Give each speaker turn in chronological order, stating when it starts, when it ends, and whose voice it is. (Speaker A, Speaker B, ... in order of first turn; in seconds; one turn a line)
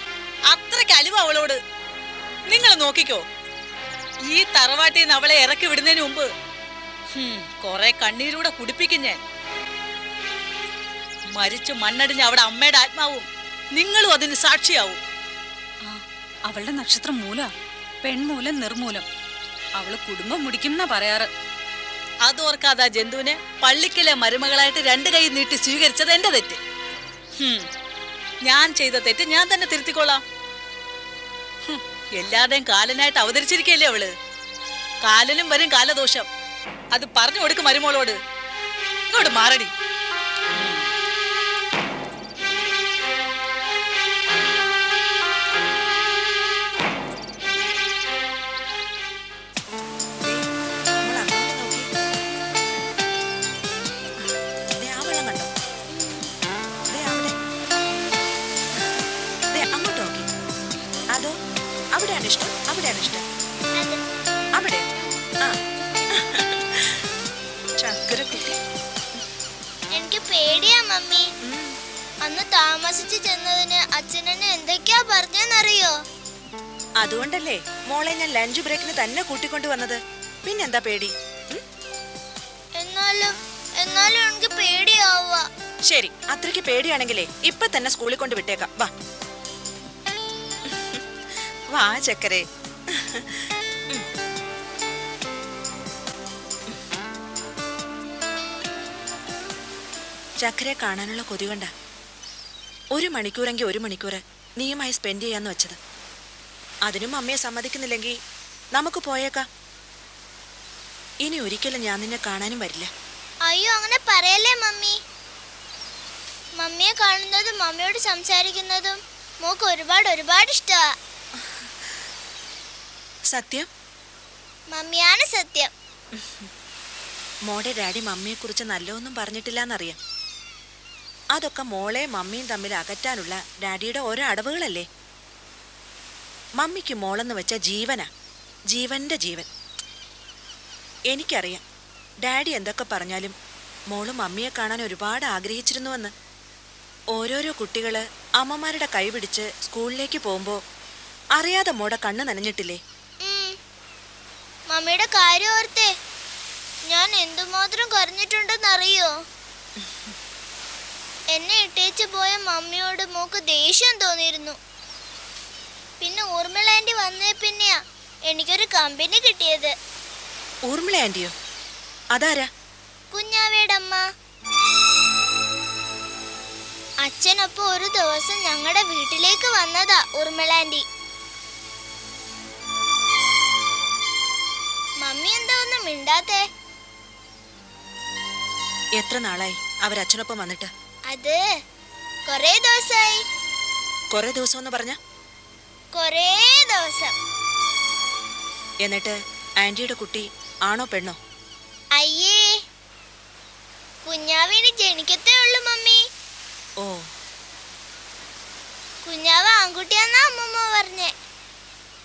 Speaker A: 0.5-1.6
Speaker A: 2.5-3.2
Speaker A: 4.3-6.3
Speaker A: 7.1-9.2
Speaker A: 11.3-15.0
Speaker B: 15.8-17.5
Speaker B: 18.0-19.1
Speaker B: 19.8-21.3
Speaker A: 22.2-26.6
Speaker A: 27.4-27.7
Speaker A: 28.4-30.2
Speaker A: 31.6-34.1
Speaker A: 35.0-36.3
Speaker A: 36.9-38.2
Speaker A: 39.1-39.7
Speaker C: 51.0-51.9
Speaker C: 54.8-55.5
Speaker C: 56.9-57.3
Speaker C: 59.5-60.2
Speaker C: 62.0-63.2
Speaker C: 64.6-64.8
Speaker C: 66.2-67.0
Speaker C: 67.8-68.6
Speaker D: 69.9-71.2
Speaker C: 71.5-71.7
Speaker D: 72.2-75.9
Speaker C: 77.0-81.6
Speaker D: 82.8-85.5
Speaker C: 85.9-88.9
Speaker C: 90.7-91.0
Speaker C: 91.7-92.4
Speaker C: 93.0-94.0
Speaker C: 100.4-101.7
Speaker C: 103.0-105.8
Speaker C: 106.9-108.1
Speaker C: 108.8-109.5
Speaker C: 111.2-112.9
Speaker D: 113.5-114.9
Speaker D: 116.6-120.9
Speaker C: 123.3-123.7
Speaker D: 124.7-125.7
Speaker C: 127.5-130.0
Speaker C: 131.3-134.8
Speaker C: 136.6-138.1
Speaker C: 138.7-139.5
Speaker C: 141.1-141.6
Speaker C: 142.2-143.3
Speaker C: 143.9-146.1
Speaker C: 147.1-150.6
Speaker C: 151.4-152.8
Speaker D: 153.2-153.5
Speaker D: 154.7-155.9
Speaker D: 156.9-159.1
Speaker D: 161.3-164.6
Speaker D: 166.0-169.7
Speaker C: 170.7-171.3
Speaker C: 172.2-172.5
Speaker D: 173.1-174.0
Speaker D: 177.1-180.8
Speaker D: 185.0-186.4
Speaker C: 189.0-190.7
Speaker D: 191.1-191.4
Speaker D: 192.3-193.2
Speaker C: 194.1-195.0
Speaker D: 195.9-197.1
Speaker C: 198.8-201.2
Speaker D: 201.9-202.4
Speaker D: 204.1-206.0
Speaker D: 209.1-211.1